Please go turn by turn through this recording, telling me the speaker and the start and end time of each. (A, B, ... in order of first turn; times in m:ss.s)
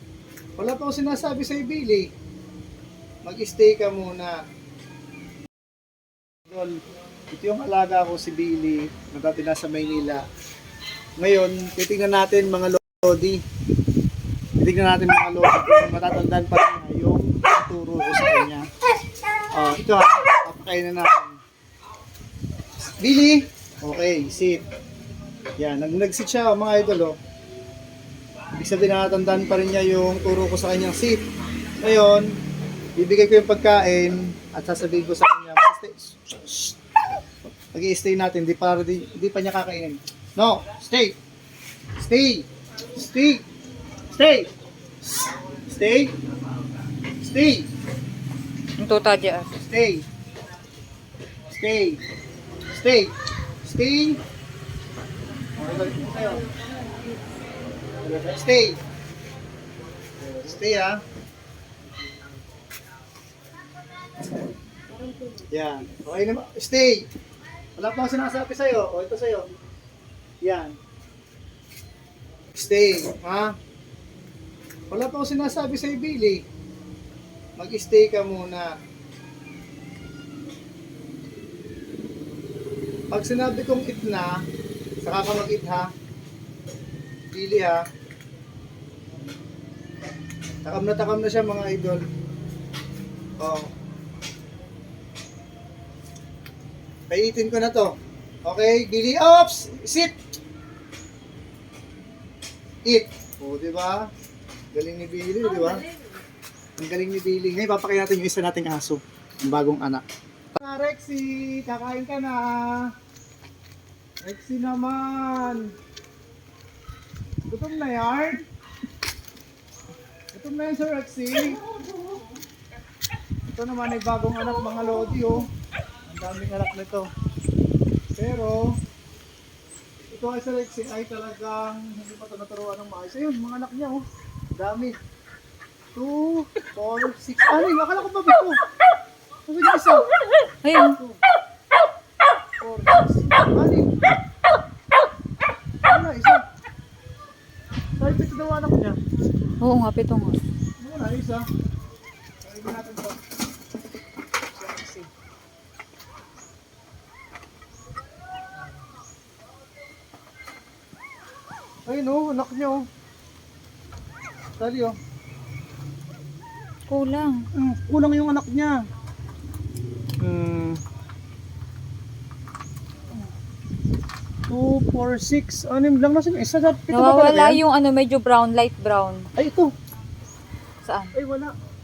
0:00.6-0:02.1 A
0:03.2-0:04.3 A
0:06.5-0:06.8 A
0:07.3-0:10.2 A
0:11.2-0:13.4 A
0:14.6-0:18.7 A
0:19.5-0:21.4 A
0:23.0-0:24.6 A
0:25.6-0:27.2 A
0:28.6-0:31.2 A
0:31.8-0:32.3 A
0:33.0-0:36.8 A
0:37.7-0:41.2 A
0:42.0-0:43.4 A
0:44.1-0:44.5 A
0:45.2-0:46.1 A
0:47.2-0:47.7 A
0:48.8-0:49.6 B
0:49.6-0:50.0 A
0:51.5-0:52.0 A
0:52.7-0:53.1 A
0:53.6-0:54.2 A
0:55.6-0:56.5 A
0:58.0-0:58.8 A
1:00.2-1:01.0 A
1:05.5-1:07.1 A
1:07.8-1:09.5 A
1:10.4-1:10.8 A
1:12.5-1:13.6 A
1:14.9-1:16.4 A
1:17.6-1:18.7 A
1:23.1-1:24.4 A
1:25.0-1:25.9 A
1:27.3-1:27.8 A
1:30.6-1:32.0 A
1:33.4-1:33.7 A
1:37.1-1:37.9 A
1:38.5-1:40.1 A
1:42.9-1:44.1 A
1:44.7-1:45.8 A
1:46.8-1:50.0 A
1:50.6-1:52.9 A
1:54.2-1:55.7 A
1:57.5-1:58.5 A
2:00.3-2:01.6 A
2:03.5-2:05.5 A
2:06.1-2:07.1 A
2:08.2-2:08.7 A
2:10.1-2:14.0 A
2:14.6-2:15.0 A
2:16.0-2:18.6 A
2:19.5-2:20.0 A
2:20.6-2:21.0 B
2:21.0-2:21.2 A
2:22.6-2:23.9 A
2:25.8-2:26.4 A
2:28.0-2:29.0 A
2:29.6-2:30.4 B
2:30.8-2:31.5 A
2:32.4-2:33.2 A
2:34.6-2:35.1 A
2:41.9-2:42.8 A
2:44.6-2:45.0 A
2:46.9-2:47.5 B
2:47.6-2:48.8 A
2:50.2-2:50.8 A
2:54.5-2:57.6 A
2:56.9-2:59.3 B
2:59.4-2:59.7 A
3:00.8-3:01.1 B
3:01.1-3:01.5 A